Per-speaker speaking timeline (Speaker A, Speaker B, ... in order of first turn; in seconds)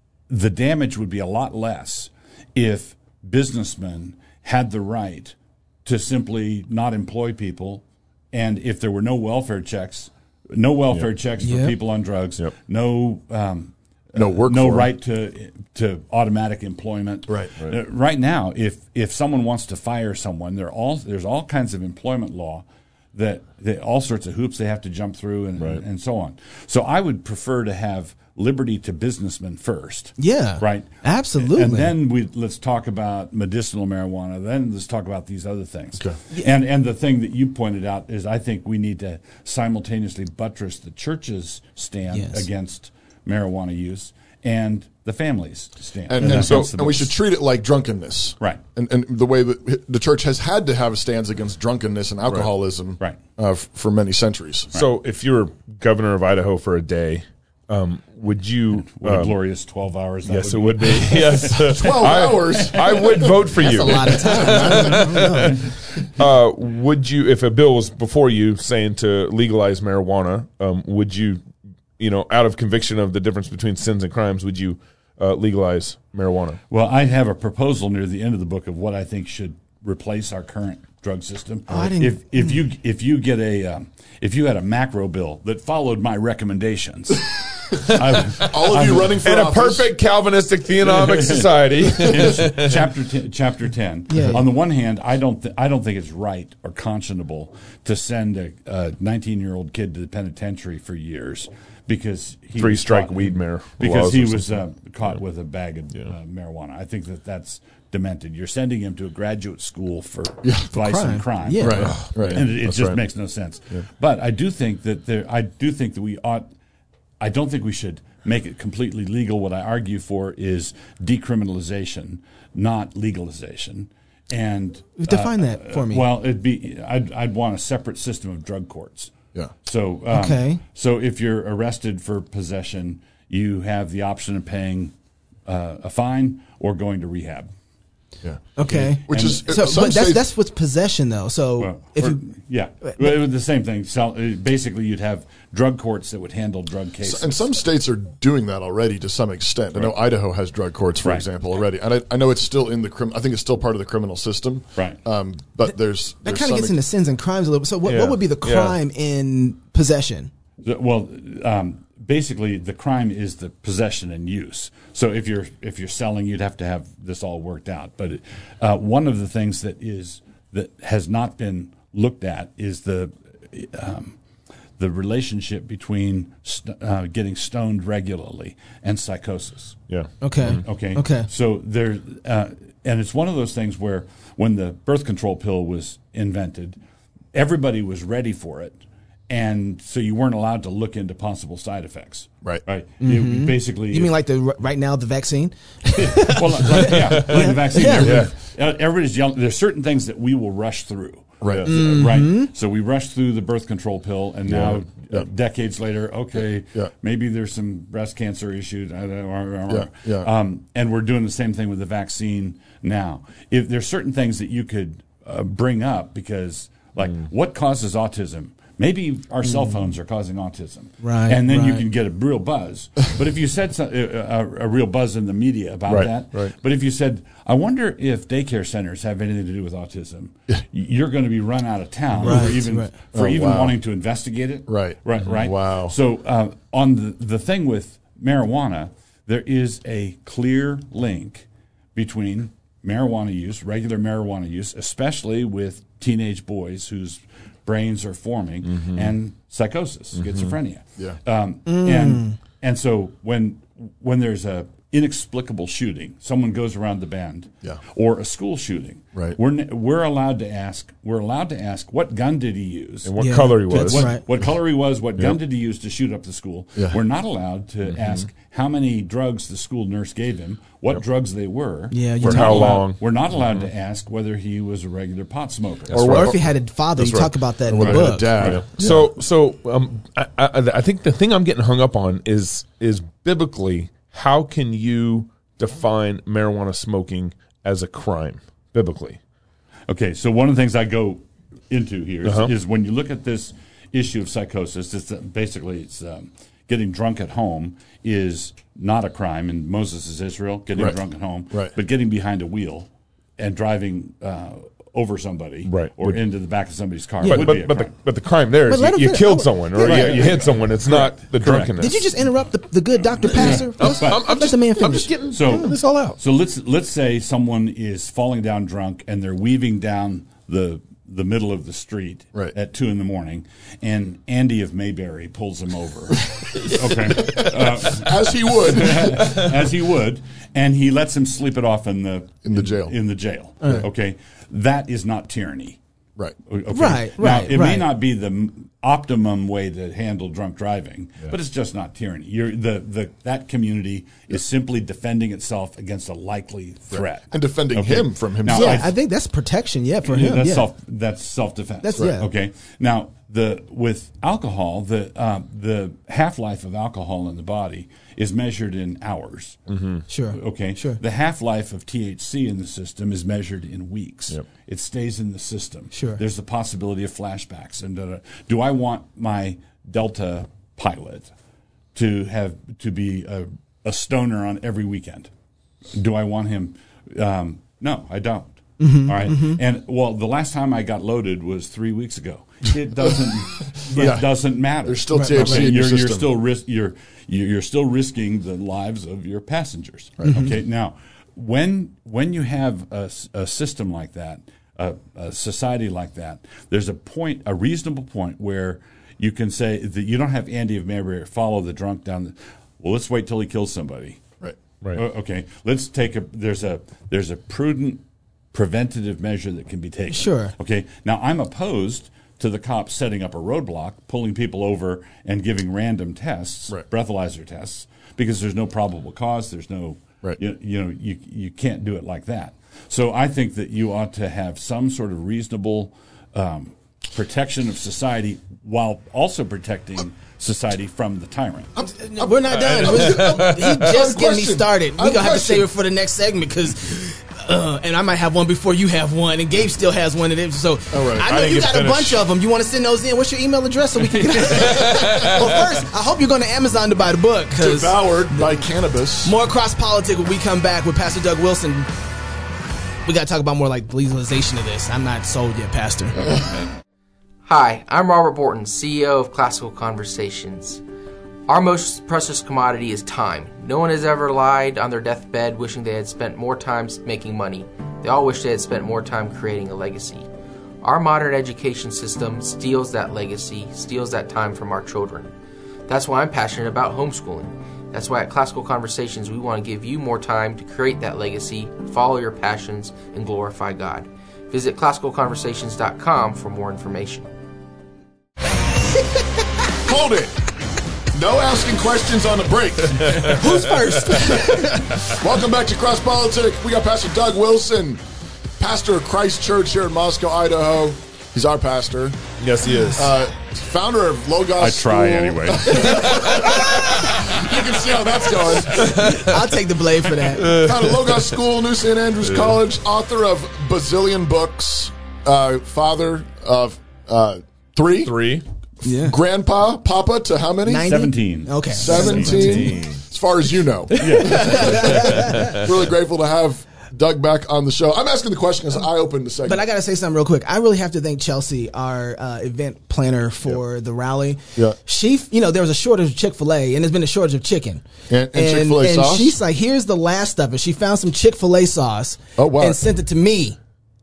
Speaker A: 0.3-47.2, 58.9-63.1, 76.7-89.2, 90.8-116.5, 117.2-134.9, 135.5-137.5, 138.7-139.4, 141.6-147.5, 151.0-151.3, 160.6-174.2, 174.8-179.8, 180.6-186.8, 187.3-194.1, 196.0-276.3, 289.9-307.9, 309.8-311.9, 313.2-314.4, 315.2-335.8, 336.5-348.9, 350.0-359.6, 360.3-371.3, 371.9-375.3, 375.9-404.2, 404.9-431.7, 504.6-506.4, 520.8-522.6, 524.0-525.1
Speaker B: 11.4-11.7, 30.2-31.9, 42.1-42.5, 63.6-65.7, 81.7-82.6, 94.1-94.4, 110.7-112.0, 125.0-126.1, 130.1-130.6, 138.6-142.2, 156.2-160.3, 180.2-181.3, 193.0-198.2, 201.7-202.5, 219.4-219.7, 221.0-221.8, 232.2-232.9, 251.7-252.4, 263.2-264.2, 271.9-272.9, 276.1-278.6, 307.2-307.5, 308.7-310.3, 311.8-315.7, 336.7-337.9, 348.5-350.7, 351.8-352.3, 360.1-361.0, 365.9-366.2, 378.8-379.6, 385.1-385.7, 410.1-410.6, 431.8-448.5, 449.2-451.9, 453.1-456.3, 493.2-494.9, 508.8-510.6, 518.8-519.2, 520.6-522.8, 524.2-525.6, 529.5-543.6
Speaker C: 14.2-14.9, 17.3-17.5, 46.1-54.7, 61.7-65.1, 88.5-89.9, 111.6-112.5, 139.1-140.2, 147.0-156.8, 201.4-201.7, 209.7-210.3, 233.1-233.7, 234.7-235.9, 275.9-276.4, 277.0-279.1, 327.2-329.4, 332.4-332.9, 346.9-348.9, 383.7-384.3, 384.8-386.3, 432.2-435.7, 440.9-441.3, 447.6-449.3, 489.9-490.4, 491.1-493.6, 495.0-498.0, 498.6-502.2, 502.9-509.1, 510.5-518.2, 518.9-520.9, 521.7-529.6, 538.1-539.4, 542.4-542.8
Speaker D: 25.6-25.8, 46.2-46.7, 52.3-52.5, 54.8-59.3, 60.2-65.6, 66.2-71.4, 72.0-76.6, 88.2-92.8, 102.6-104.6, 111.7-113.0, 157.8-158.8, 179.9-180.6, 196.8-198.3, 225.9-226.5, 250.2-250.5, 263.1-264.1, 267.9-268.2, 272.2-273.0, 275.9-276.3, 277.8-289.2, 292.2-292.5, 305.7-306.2, 307.3-312.0, 313.3-316.2, 359.7-360.0, 432.6-433.7, 441.3-442.2, 444.6-445.4, 502.4-503.1, 508.8-509.3, 510.4-511.3, 512.2-512.6, 518.0-518.4, 521.9-523.0, 525.1-525.6
Speaker E: 457.4-460.8, 461.5-470.3, 470.8-475.3, 475.9-487.3